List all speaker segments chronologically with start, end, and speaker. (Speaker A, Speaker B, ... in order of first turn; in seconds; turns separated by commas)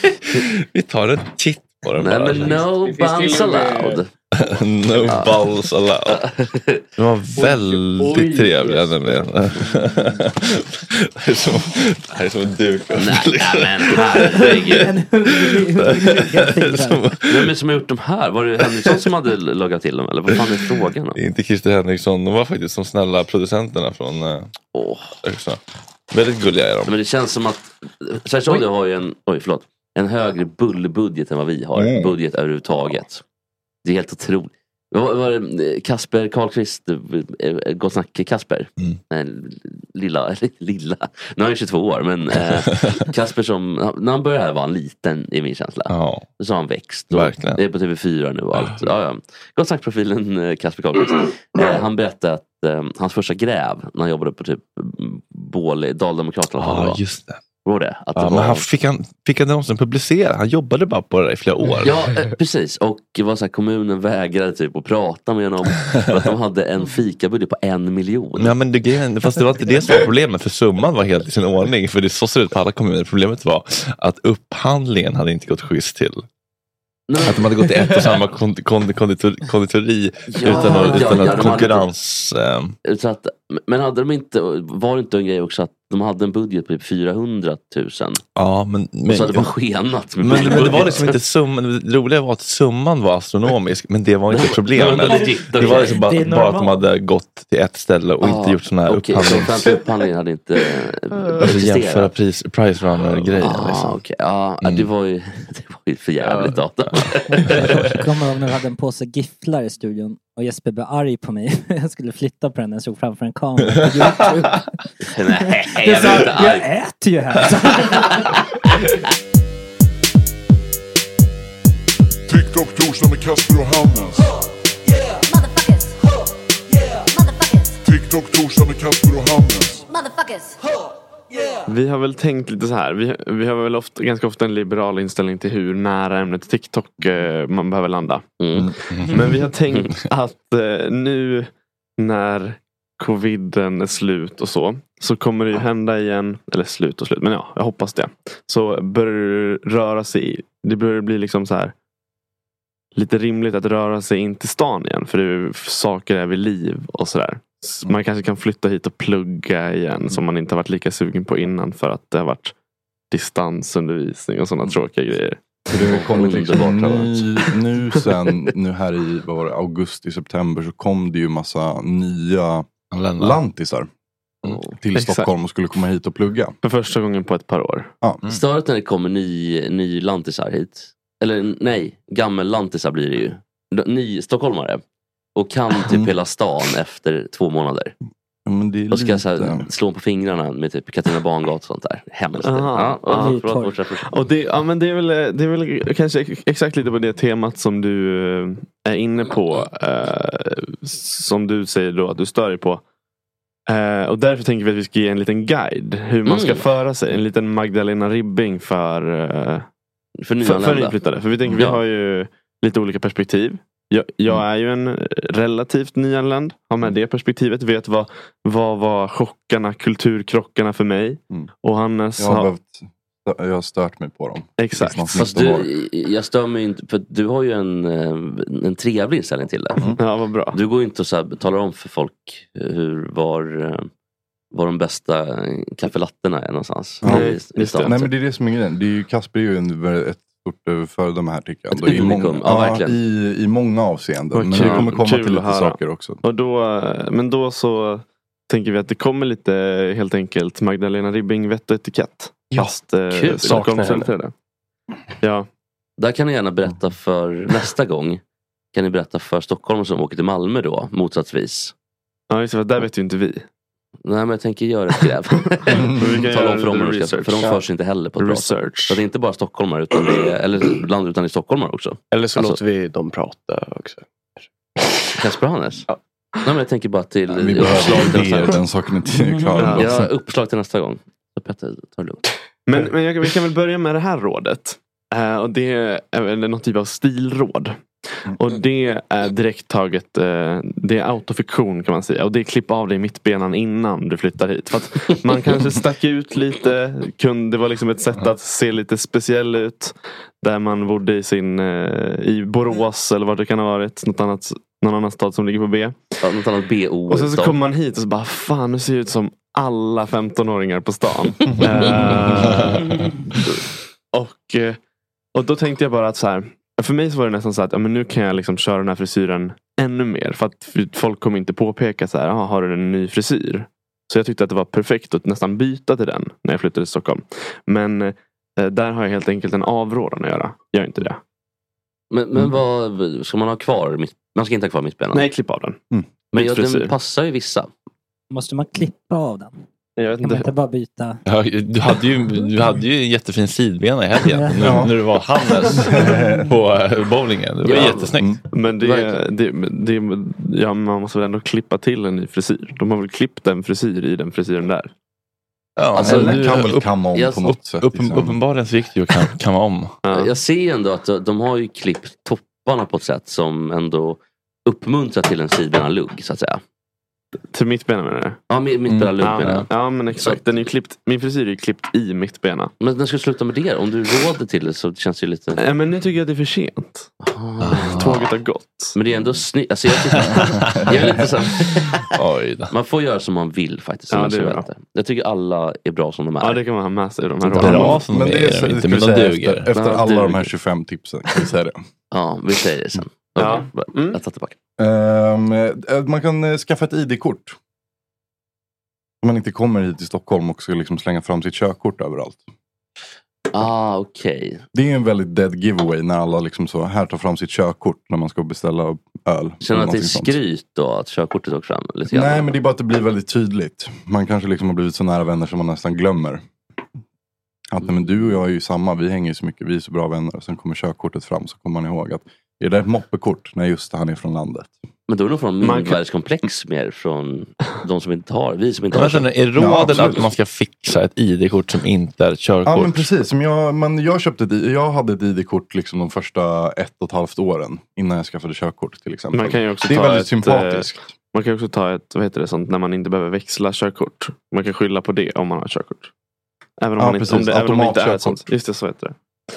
Speaker A: 0.3-2.6, Speaker B: 2.0-4.1, Speaker C: 2.3-4.0, Speaker A: 4.3-6.2, Speaker B: 5.0-5.4, Speaker B: 6.1-6.8, Speaker A: 7.0-17.5, Speaker C: 7.3-10.2, Speaker B: 12.9-14.9, Speaker D: 14.6-17.1, Speaker B: 17.3-21.2, Speaker A: 18.6-19.0, Speaker A: 21.1-24.5, Speaker B: 24.7-25.1, Speaker A: 25.2-25.6, Speaker A: 26.1-26.9, Speaker B: 26.9-33.2, Speaker A: 31.8-32.1, Speaker B: 33.8-57.0, Speaker A: 45.9-46.2, Speaker A: 47.1-47.6, Speaker A: 48.5-48.8, Speaker A: 56.6-57.4, Speaker B: 57.6-58.7, Speaker A: 58.1-62.0, Speaker B: 61.8-68.5, Speaker A: 68.4-76.2, Speaker B: 77.1-78.0, Speaker A: 77.2-82.8, Speaker B: 80.3-81.9, Speaker D: 80.5-81.5, Speaker B: 82.8-88.2, Speaker A: 88.3-89.5, Speaker B: 89.1-91.2, Speaker A: 90.2-99.8, Speaker B: 94.3-96.0, Speaker D: 95.1-96.8, Speaker B: 98.2-102.1, Speaker A: 101.4-104.0, Speaker B: 103.4-107.9, Speaker A: 104.6-104.9, Speaker C: 106.2-106.6, Speaker D: 107.3-114.6, Speaker B: 115.1-116.7, Speaker D: 115.8-118.3, Speaker B: 117.8-118.2, Speaker E: 122.3-124.2, Speaker E: 127.9-129.8, Speaker F: 131.7-138.2, Speaker B: 138.4-139.2, Speaker F: 138.9-151.7, Speaker F: 152.9-162.5, Speaker F: 163.1-166.4, Speaker G: 165.7-173.9, Speaker B: 165.8-167.2, Speaker A: 172.9-173.4, Speaker G: 174.8-176.6, Speaker F: 174.9-175.3, Speaker F: 176.6-177.9, Speaker B: 178.3-184.8, Speaker B: 185.3-187.9, Speaker G: 185.8-186.1, Speaker G: 188.4-189.7, Speaker B: 188.9-194.1, Speaker F: 192.4-193.4, Speaker D: 193.1-193.7, Speaker F: 194.0-202.8, Speaker F: 203.7-209.7, Speaker B: 206.2-206.7, Speaker B: 210.2-211.8, Speaker F: 210.4-222.5, Speaker G: 222.2-225.7, Speaker F: 224.6-225.2, Speaker B: 225.1-229.9, Speaker F: 230.0-230.6, Speaker B: 230.5-233.9, Speaker B: 234.5-238.1, Speaker G: 237.0-237.3, Speaker F: 237.0-238.0, Speaker G: 237.8-246.2, Speaker B: 241.7-243.0, Speaker F: 244.4-254.3, Speaker B: 244.6-244.9, Speaker B: 253.1-254.0, Speaker C: 253.4-254.1, Speaker F: 255.2-255.5, Speaker B: 256.0-258.2, Speaker B: 258.7-261.7, Speaker F: 262.3-263.4, Speaker B: 264.0-272.6, Speaker F: 265.7-267.6, Speaker F: 268.2-269.0, Speaker C: 272.1-274.9, Speaker B: 275.2-275.9, Speaker B: 276.4-278.6, Speaker G: 277.3-280.1, Speaker F: 279.6-279.9, Speaker B: 279.6-282.2, Speaker F: 282.6-287.8, Speaker F: 288.3-306.2, Speaker B: 306.2-307.6, Speaker F: 307.1-312.9, Speaker G: 311.5-311.9, Speaker F: 314.1-314.8, Speaker F: 315.3-331.2, Speaker B: 332.1-335.3, Speaker F: 335.1-335.8, Speaker F: 336.3-336.9, Speaker B: 336.3-337.7, Speaker D: 338.3-339.5, Speaker F: 340.0-340.5, Speaker D: 340.2-341.2, Speaker A: 341.2-348.4, Speaker G: 344.6-344.9, Speaker G: 345.7-346.5, Speaker B: 347.6-348.1, Speaker F: 348.5-354.9, Speaker B: 348.8-349.2, Speaker A: 355.8-356.9, Speaker G: 355.9-358.4, Speaker B: 355.9-356.6, Speaker B: 357.1-357.4, Speaker A: 357.4-360.0, Speaker F: 360.0-360.3, Speaker B: 360.1-366.6, Speaker F: 367.5-368.4, Speaker B: 368.5-370.4, Speaker G: 368.9-369.6, Speaker F: 369.2-372.7, Speaker B: 372.8-375.6, Speaker F: 375.5-377.1, Speaker B: 377.2-378.3, Speaker A: 377.6-378.2, Speaker F: 377.9-378.9, Speaker B: 378.9-382.1, Speaker G: 380.2-381.1, Speaker A: 380.6-380.9, Speaker A: 382.1-382.7, Speaker B: 382.7-386.6, Speaker F: 384.1-384.7, Speaker F: 386.4-388.0, Speaker A: 387.6-389.7, Speaker G: 387.6-391.8, Speaker B: 389.7-390.5, Speaker B: 392.1-394.6, Speaker F: 393.4-394.2, Speaker G: 394.8-397.6, Speaker G: 399.2-402.4, Speaker B: 403.5-404.6, Speaker G: 404.7-410.4, Speaker B: 409.6-412.5, Speaker G: 412.1-416.4, Speaker G: 417.7-424.7, Speaker B: 425.1-429.3, Speaker F: 425.6-426.0, Speaker A: 428.9-433.1, Speaker G: 429.6-430.2, Speaker G: 432.6-440.9, Speaker F: 439.3-446.1, Speaker F: 446.8-449.1, Speaker G: 447.0-448.5